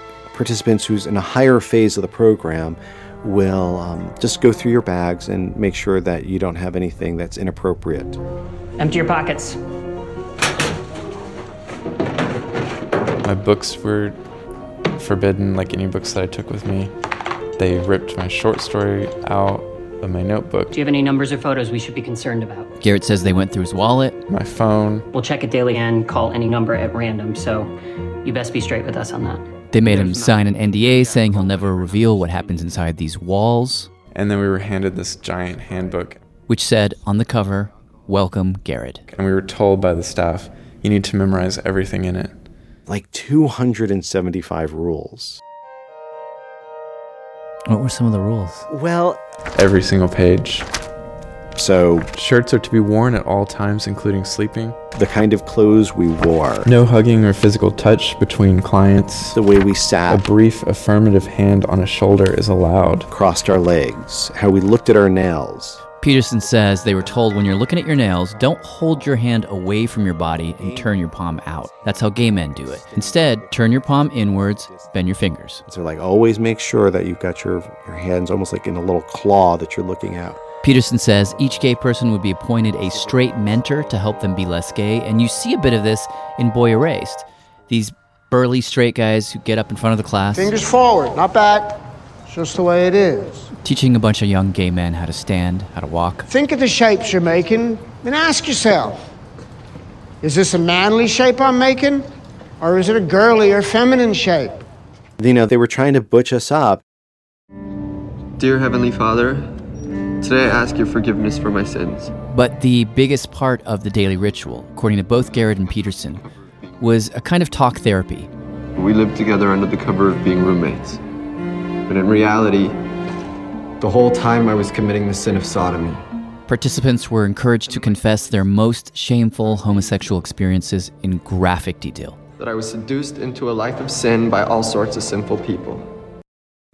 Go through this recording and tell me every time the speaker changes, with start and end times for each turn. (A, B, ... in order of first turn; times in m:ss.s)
0:00.3-0:08.2 A
0:08.8-0:09.6 B
0:13.2-0:14.2 C
0:15.0-0:16.9 C
0:17.6-0:20.7 C
0:20.7-0:22.7 B
0:22.8-0:24.2 D
0:24.3-0:25.1 C
0:25.1-0:27.7 B
0:28.2-0:29.4 B
0:29.7-0:33.9 D
0:34.1-0:36.2 C
0:36.5-0:39.0 D
0:39.1-0:42.3 C
0:42.9-0:45.4 A
0:47.7-0:48.6 D
0:48.7-0:49.2 A
0:49.6-0:50.7 C
0:51.6-0:52.1 A
0:52.2-0:54.8 C
0:55.0-0:56.7 A
0:56.6-0:59.4 C
0:59.4-1:00.2 A
1:00.1-1:03.1 C
1:03.1-1:05.8 A
1:06.0-1:15.6 D
1:10.6-1:15.0 A
1:15.7-1:20.4 A
1:20.6-1:30.6 D
1:30.3-1:33.5 E
1:33.6-1:36.3 D
1:36.3-1:39.0 E
1:40.2-1:42.0 E
1:42.6-1:44.6 E
1:45.2-1:46.8 A
1:48.4-1:49.5 F
1:50.2-1:52.1 F
1:52.3-1:56.2 D
1:56.8-1:58.3 D
1:58.8-2:01.0 F
2:01.9-2:02.8 F
2:03.8-2:06.0 F
2:06.5-2:12.2 D
2:12.4-2:15.8 F